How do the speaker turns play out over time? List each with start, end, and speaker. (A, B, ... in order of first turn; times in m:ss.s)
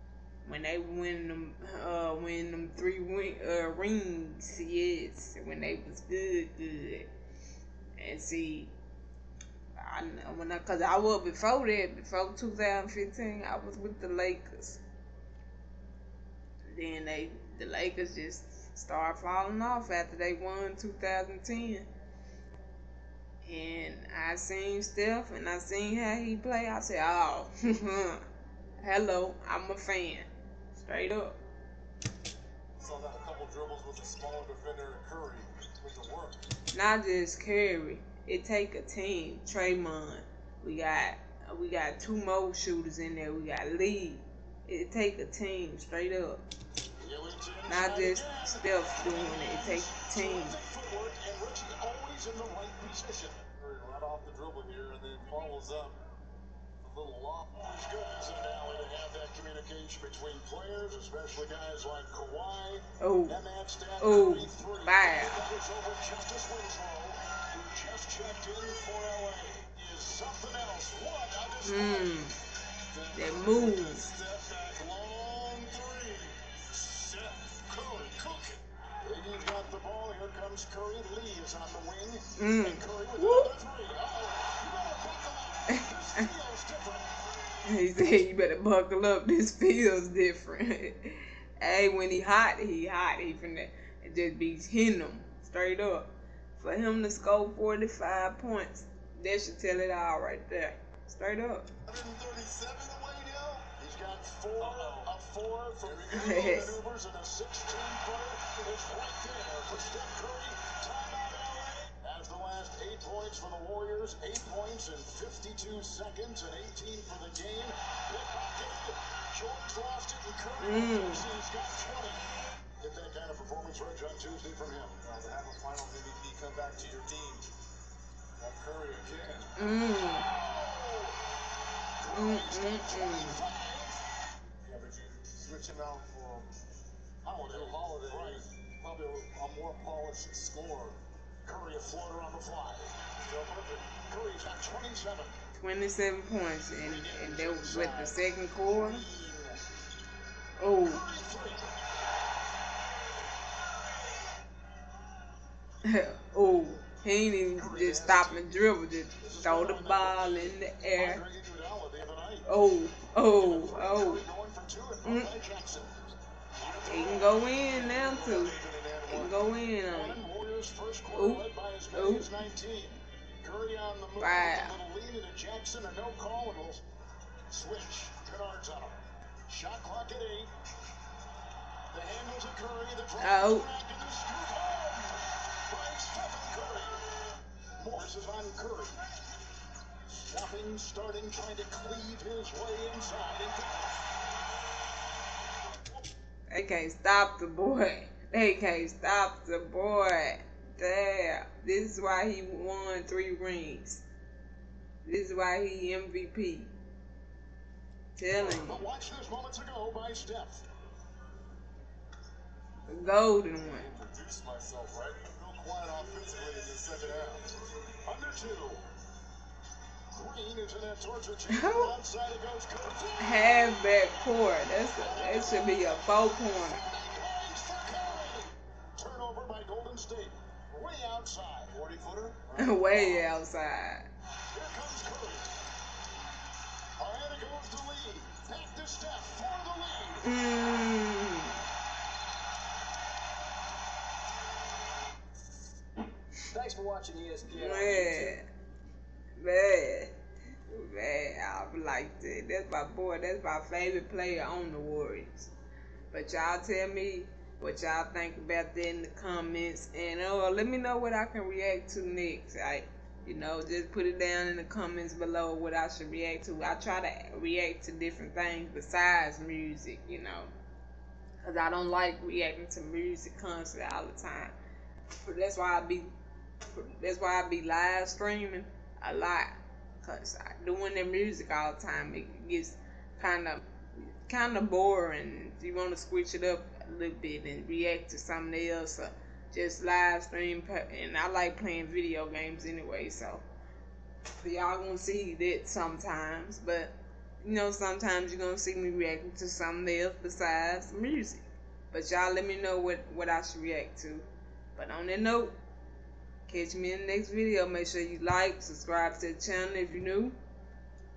0:00.4-0:07.1 A
0:08.0-0:08.7 A
0:09.8-0:14.8 A
0:16.6-0:21.9 A
0:23.4-0:28.2 A
0:28.8-0:31.4 A
0:32.8-0:36.4 B
0:36.7-0:46.4 A
0:47.0-0:53.4 C
0:47.7-0:50.6 A
0:53.5-0:56.0 B
0:56.8-0:57.5 B
0:57.5-1:12.2 C
1:03.0-1:03.4 A
1:04.0-1:05.4 A
1:11.6-1:12.4 A
1:12.9-1:18.6 B
1:13.1-1:14.0 A
1:19.0-1:27.1 C
1:22.4-1:23.5 A
1:27.6-1:41.7 A
1:41.9-1:43.7 B
1:43.8-2:02.2 C
1:44.6-1:45.1 B
1:45.8-1:46.4 B
1:46.1-1:46.7 A
2:00.6-2:01.2 A
2:02.8-2:04.9 C
2:05.0-2:07.5 B
2:08.4-2:09.5 B
2:09.6-2:10.3 A
2:10.1-2:11.2 C
2:12.0-2:14.0 C
2:12.1-2:13.4 A
2:14.6-2:16.5 B
2:17.2-2:18.4 C
2:17.4-2:21.0 B
2:21.4-2:25.3 C
2:25.6-2:29.0 A
2:26.8-2:29.6 C
2:30.6-2:31.0 A
2:30.8-2:31.7 C
2:35.8-2:41.2 A
2:37.5-2:38.5 C
2:39.2-2:42.6 C
2:42.5-2:44.2 A
2:43.4-2:46.1 C
2:45.0-2:45.3 A
2:46.6-2:49.3 B
2:46.9-2:48.5 A
2:49.0-2:50.2 A
2:49.9-2:56.8 C
2:51.1-2:51.4 A
2:51.9-2:52.3 A
2:54.2-2:54.7 A
2:57.5-2:59.0 C
2:59.5-3:00.5 C
3:01.9-3:07.0 C
3:03.2-3:03.7 A
3:07.8-3:09.0 C
3:10.1-3:13.9 C
3:16.5-3:24.0 A
3:25.0-3:26.7 A
3:28.2-3:28.8 A
3:28.3-3:30.6 C
3:32.9-3:33.9 A
3:33.6-3:37.4 B
3:38.0-3:38.8 C
3:40.1-3:43.8 C
3:41.5-3:41.9 A
3:43.2-3:46.8 A
3:45.0-3:51.7 C
3:51.7-3:53.2 B
3:52.6-3:54.1 A
3:54.5-3:55.5 C
3:57.0-4:00.3 C
4:00.2-4:01.6 A
4:06.5-4:08.3 B
4:07.5-4:08.4 A
4:09.4-4:10.1 A
4:10.7-4:15.5 A
4:16.1-4:30.5 A
4:31.4-4:34.5 A
4:35.2-4:36.1 A
4:36.7-4:43.6 A
4:44.3-4:53.4 A
4:54.4-5:05.5 A
5:06.4-5:10.3 A